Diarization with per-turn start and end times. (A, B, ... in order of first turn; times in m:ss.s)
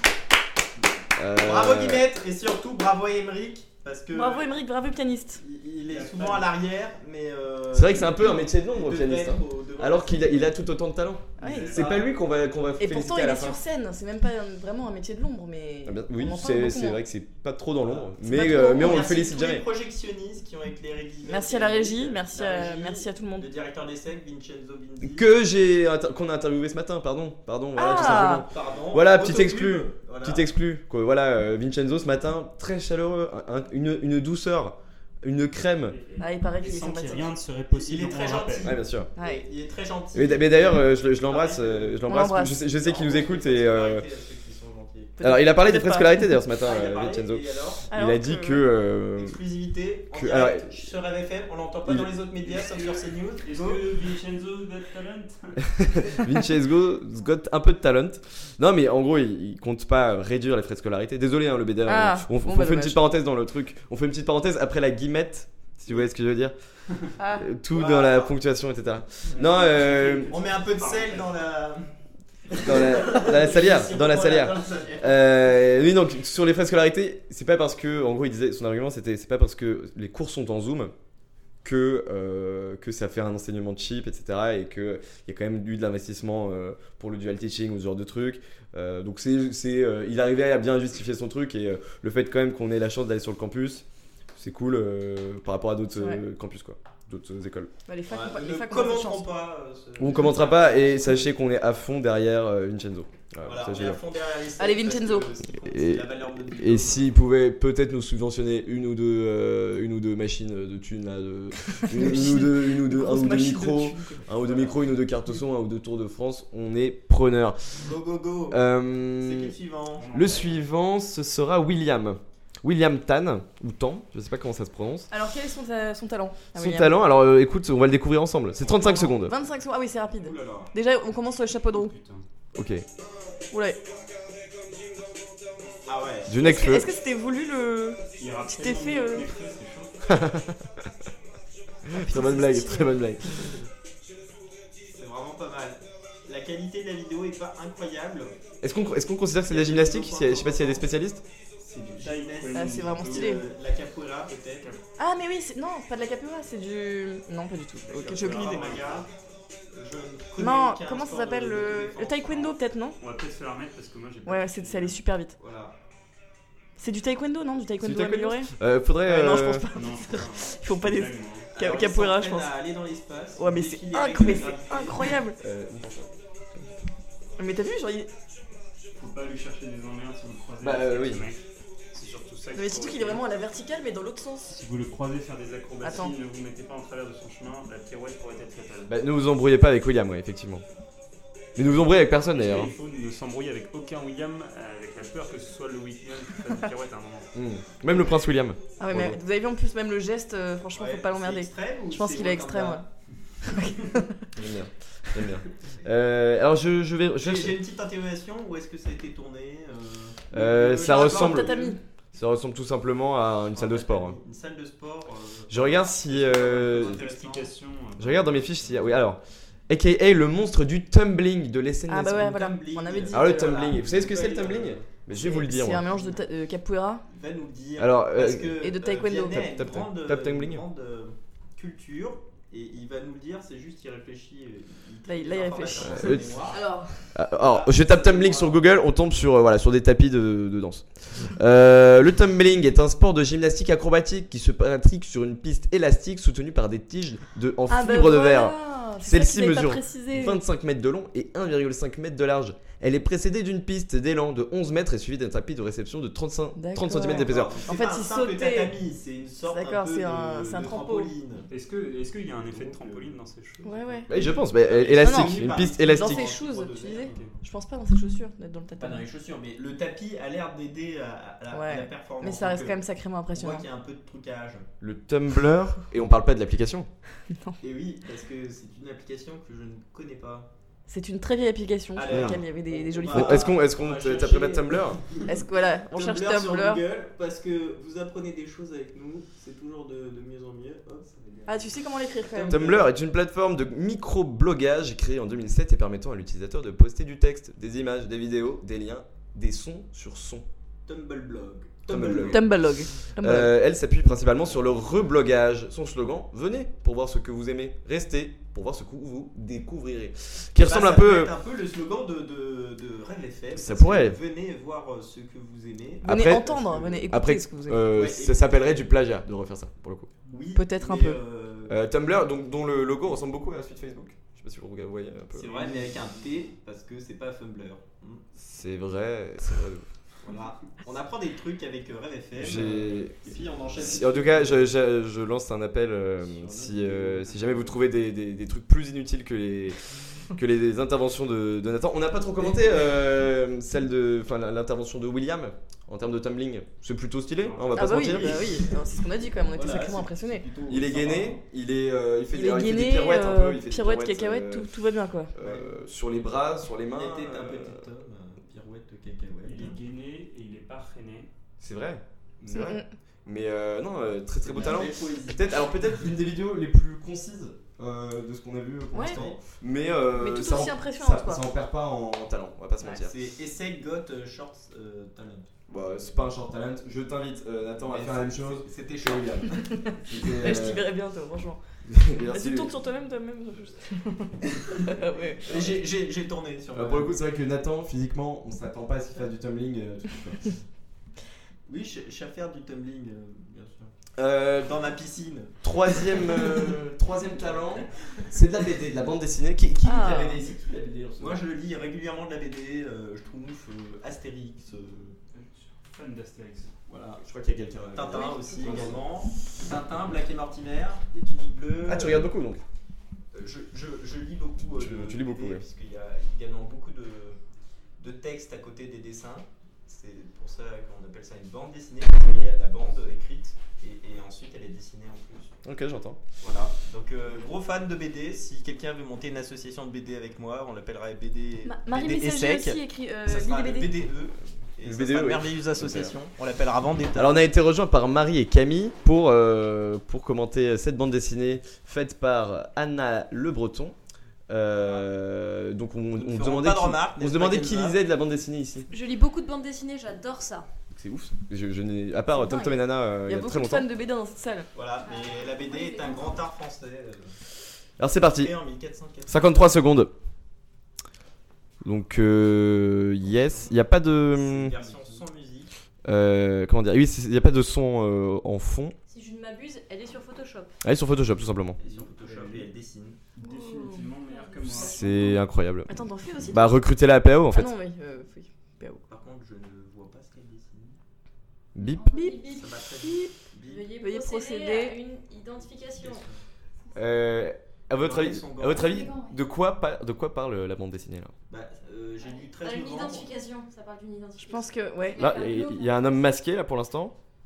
0:01.2-0:02.1 A
0:01.4-0:04.6 B
0:04.1-0:05.4 C
0:05.4-0:10.6 B
0:05.9-0:06.5 D
0:07.7-0:13.6 A
0:11.4-0:11.8 C
0:11.4-0:12.1 B
0:11.4-0:11.8 D
0:12.8-0:17.0 C
0:15.8-0:19.6 A
0:17.8-0:25.3 B
0:18.2-0:19.1 C
0:21.2-0:23.5 C
0:25.0-0:36.0 A
0:27.8-0:28.5 C
0:27.8-0:30.4 B
0:35.9-0:38.8 D
0:36.2-0:37.3 C
0:37.3-0:45.2 B
0:38.6-0:39.1 A
0:39.2-0:39.4 C
0:40.1-0:44.1 A
0:42.1-0:42.6 C
0:45.2-0:46.2 C
0:45.2-0:49.4 A
0:46.6-0:47.9 B
0:47.9-0:48.7 C
0:49.1-0:53.8 B
0:50.1-0:50.8 A
0:51.8-0:52.1 A
0:52.4-0:55.7 D
0:55.8-1:06.5 A
1:01.8-1:03.1 C
1:07.2-1:07.5 C
1:07.4-1:10.3 A
1:07.7-1:08.3 B
1:09.3-1:11.4 D
1:10.3-1:11.9 B
1:12.5-1:15.2 B
1:12.6-1:20.9 A
1:21.6-1:33.8 A
1:34.4-1:37.7 A
1:35.9-1:36.2 C
1:37.9-1:39.3 C
1:38.1-1:41.3 B
1:40.0-1:44.0 A
1:43.4-1:47.1 B
1:44.6-1:45.3 C
1:45.6-1:57.9 A
1:51.9-1:54.2 C
1:54.3-1:54.8 B
1:57.8-2:00.1 B
1:58.5-1:59.6 A
2:00.0-2:00.6 D
2:00.1-2:05.1 A
2:05.1-2:06.9 C
2:06.6-2:09.4 A
2:08.6-2:09.1 B
2:09.0-2:11.9 C
2:10.2-2:10.7 B
2:11.7-2:12.2 D
2:12.6-2:12.8 A
2:13.5-2:13.8 C
2:15.8-2:16.4 B
2:16.3-2:16.9 A
2:16.4-2:19.3 C
2:18.2-2:20.2 D
2:20.1-2:20.7 A
2:21.9-2:23.6 A
2:21.9-2:22.9 C
2:24.9-2:28.3 B
2:28.6-2:31.2 A
2:29.4-2:30.9 B
2:31.6-2:33.5 D
2:31.8-2:34.7 B
2:32.5-2:33.4 C
2:35.0-2:38.7 C
2:37.8-2:39.1 D
2:37.9-2:39.1 B
2:39.7-2:42.6 B
2:40.4-2:43.0 C
2:43.0-2:45.0 D
2:44.2-2:45.3 C
2:45.4-2:45.8 B
2:46.8-2:48.5 C
2:47.8-2:49.7 A
2:49.0-2:52.6 C
2:49.7-2:51.5 D
2:51.5-2:55.2 B
2:53.4-2:55.4 C
2:55.4-2:56.7 A
2:57.4-2:58.1 C
2:59.0-3:03.2 D
3:00.6-3:01.2 A
3:02.5-3:04.6 C
3:04.5-3:08.9 D
3:05.8-3:06.1 C
3:08.9-3:10.6 A
3:11.6-3:12.7 A
3:12.2-3:17.3 D
3:17.3-3:19.2 A
3:18.8-3:22.8 C
3:20.7-3:22.8 B
3:23.4-3:24.2 C
3:24.4-3:27.6 A
3:27.2-3:31.8 B
3:30.3-3:31.6 A
3:30.8-3:31.8 C
3:32.1-3:34.2 A
3:33.5-3:37.5 B
3:35.5-3:37.0 A
3:36.7-3:39.0 D
3:38.0-3:42.3 A
3:41.9-3:43.6 C
3:42.1-3:44.9 B
3:43.1-3:45.9 A
3:45.1-3:47.0 C
3:45.9-3:46.2 B
3:47.0-3:56.6 B
3:47.8-3:48.7 A
3:48.6-3:49.5 C
3:49.3-3:50.6 A
3:55.1-3:56.3 C
3:55.8-3:56.3 A
3:56.5-3:57.0 E
3:57.1-4:17.6 A
3:57.3-3:58.6 B
4:07.7-4:10.4 C
4:16.6-4:18.8 C
4:16.9-4:21.5 B
4:19.4-4:21.1 C
4:21.5-4:24.0 D
4:22.4-4:23.1 B
4:23.6-4:24.1 C
4:24.1-4:26.3 A
4:24.5-4:27.4 B
4:25.0-4:29.0 C
4:27.1-4:27.3 D
4:28.8-4:32.8 B
4:31.5-4:33.7 C
4:33.3-4:34.7 B
4:34.8-4:36.9 A
4:37.3-4:37.6 C
4:37.6-4:40.5 B
4:40.9-4:43.5 C
4:41.9-4:52.9 B
4:42.1-4:42.4 A
4:43.1-4:45.0 A
4:45.3-4:46.8 C
4:51.5-4:52.7 C
4:52.5-5:00.4 A
5:00.8-5:02.6 B
5:01.9-5:11.3 A
5:02.2-5:03.5 C
5:10.6-5:17.2 B
5:13.5-5:14.2 A
5:16.0-5:16.5 A
5:16.0-5:17.8 C
5:17.1-5:20.1 A
5:17.9-5:18.8 B
5:20.3-5:21.8 B
5:20.5-5:21.2 C
5:21.7-5:25.7 A
5:25.3-5:28.2 B
5:28.4-5:29.8 A
5:30.2-5:34.6 B
5:32.4-5:48.5 A
5:36.4-5:36.8 B
5:36.6-5:37.7 D
5:47.4-5:48.1 D
5:47.7-5:50.4 C
5:48.0-5:48.9 B
5:49.4-5:51.4 B
5:50.7-5:54.8 A
5:52.3-5:55.3 C
5:55.3-5:57.8 A
5:55.4-5:55.6 B
5:56.9-5:59.8 B
5:59.4-6:01.3 D
6:01.6-6:13.1 A
6:02.5-6:02.9 C
6:04.4-6:05.4 B
6:08.9-6:09.2 C
6:09.0-6:09.4 B
6:10.2-6:11.4 C
6:12.8-6:15.5 B
6:15.7-6:20.9 A
6:17.8-6:19.8 B
6:20.4-6:21.6 C
6:21.9-6:22.7 A
6:22.3-6:25.6 C
6:25.4-6:27.1 B
6:25.4-6:25.8 A
6:26.7-6:30.6 A
6:31.7-6:33.9 B
6:34.2-6:34.7 A
6:34.6-6:36.7 B
6:35.6-6:41.4 A
6:39.8-6:40.4 C
6:41.2-6:45.2 B
6:45.3-6:46.7 D
6:46.9-6:47.2 B
6:47.2-6:49.0 A
6:47.9-6:52.3 B
6:48.1-6:48.7 E
6:51.8-6:52.6 A
6:53.3-6:57.4 B
6:54.7-6:55.6 A
6:58.0-7:05.6 B
7:02.2-7:02.5 A
7:05.6-7:06.2 A
7:06.4-7:17.4 B
7:11.6-7:14.0 C
7:14.8-7:16.2 A
7:17.2-7:24.0 A
7:24.5-7:28.9 A
7:26.2-7:28.0 B
7:28.9-7:30.7 E
7:30.9-7:33.9 A
7:32.4-7:34.7 C
7:34.7-7:37.3 B
7:35.0-7:36.4 E
7:38.0-7:38.5 A
7:38.3-7:39.6 B
7:39.3-7:40.1 A
7:41.8-7:44.8 A
7:43.3-7:43.7 D
7:44.2-7:45.7 B
7:44.8-7:45.2 D
7:46.0-7:49.0 A
7:49.1-7:50.7 E
7:50.8-7:51.8 A
7:51.8-7:53.2 B
7:51.8-7:52.7 D
7:53.4-7:55.3 D
7:53.5-7:54.0 C
7:54.3-7:55.3 E
7:54.7-7:55.9 A
7:55.9-7:56.7 C
7:56.4-7:57.7 A
7:57.5-7:59.0 C
7:59.1-8:01.0 B
8:01.7-8:02.1 A
8:01.9-8:02.7 E
8:02.0-8:02.5 C
8:02.4-8:03.9 B
8:03.0-8:03.3 C
8:03.6-8:06.2 E
8:04.0-8:05.0 C
8:06.0-8:06.4 B
8:06.9-8:11.3 A
8:07.9-8:09.1 B
8:11.5-8:13.3 B
8:12.4-8:16.0 E
8:14.4-8:15.3 C
8:15.2-8:17.2 A